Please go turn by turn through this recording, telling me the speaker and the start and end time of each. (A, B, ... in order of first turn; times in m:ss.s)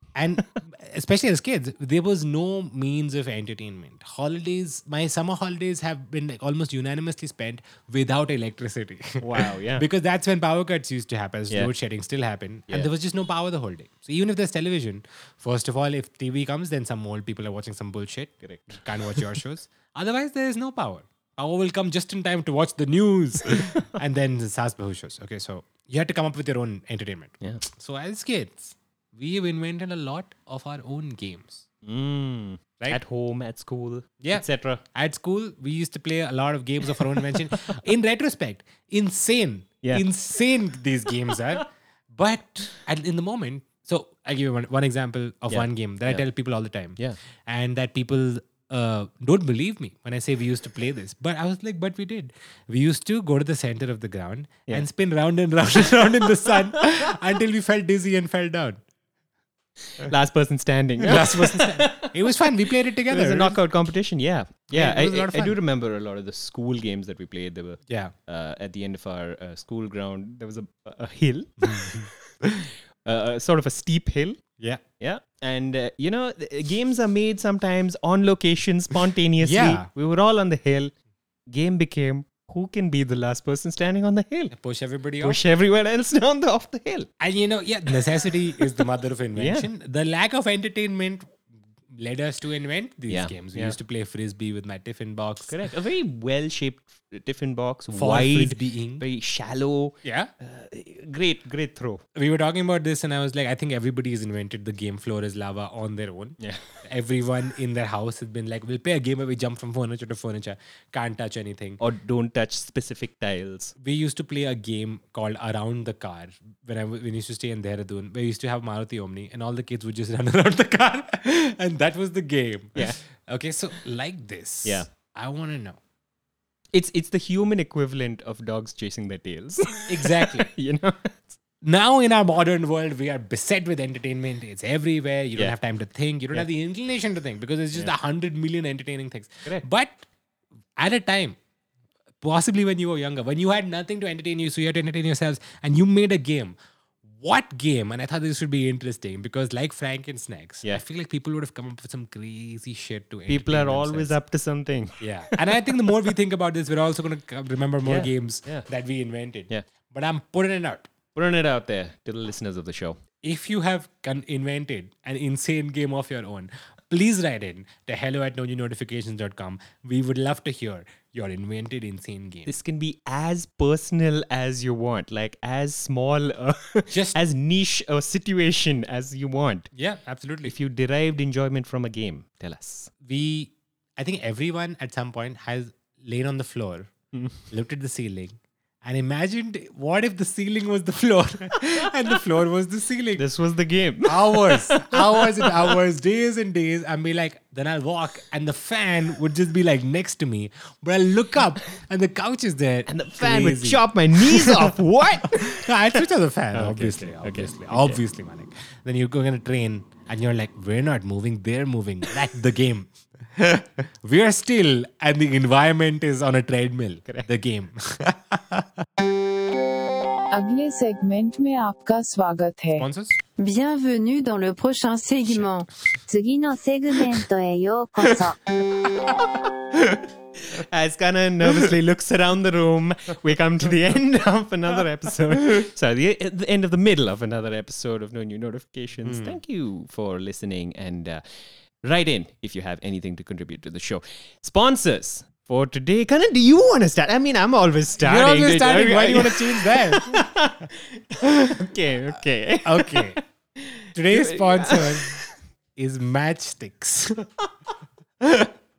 0:00.2-0:31.6 A
0:09.2-0:09.8 B
0:18.4-0:19.2 B
0:31.8-0:34.8 B
0:34.2-0:58.8 A
0:37.2-0:37.8 B
0:45.5-0:46.2 B
0:59.9-1:12.1 B
1:01.0-1:03.6 A
1:04.7-1:05.6 A
1:07.9-1:08.1 A
1:11.6-1:12.6 A
1:13.0-1:14.4 B
1:15.0-1:20.9 B
1:19.4-1:19.9 A
1:21.5-1:24.5 B
1:24.5-1:25.4 A
1:25.2-1:27.1 B
1:27.2-1:31.4 A
1:29.4-1:29.7 B
1:31.9-1:35.6 A
1:33.1-1:33.8 B
1:35.5-1:42.0 B
1:37.9-1:39.0 A
1:40.0-1:40.3 A
1:42.1-1:51.8 A
1:46.4-1:46.8 B
1:51.8-1:53.7 B
1:53.8-2:05.8 A
2:06.7-2:11.4 B
2:09.9-2:10.5 A
2:11.6-2:20.0 A
2:20.8-2:21.4 A
2:22.2-2:26.6 A
2:27.1-2:34.2 A
2:33.3-2:35.9 B
2:35.0-2:40.9 A
2:37.8-2:38.7 B
2:41.1-2:43.0 B
2:43.2-2:52.5 A
2:52.4-2:59.7 B
2:56.9-2:57.2 A
2:59.7-3:00.5 A
3:00.4-3:02.9 B
3:03.0-3:06.9 A
3:07.1-3:07.4 B
3:07.5-3:13.2 A
3:13.2-3:15.7 B
3:14.0-3:38.8 A
3:22.9-3:25.7 B
3:26.5-3:28.0 B
3:40.3-3:42.9 C
3:42.8-3:43.2 A
3:43.4-3:48.4 D
3:48.0-3:48.3 A
3:48.8-3:49.1 A
3:49.7-3:50.0 A
3:50.4-4:01.2 B
3:59.0-3:59.4 A
4:01.8-4:15.3 B
4:08.0-4:10.3 A
4:12.6-4:13.2 A
4:13.9-4:15.2 A
4:15.8-4:17.3 A
4:18.2-4:18.5 A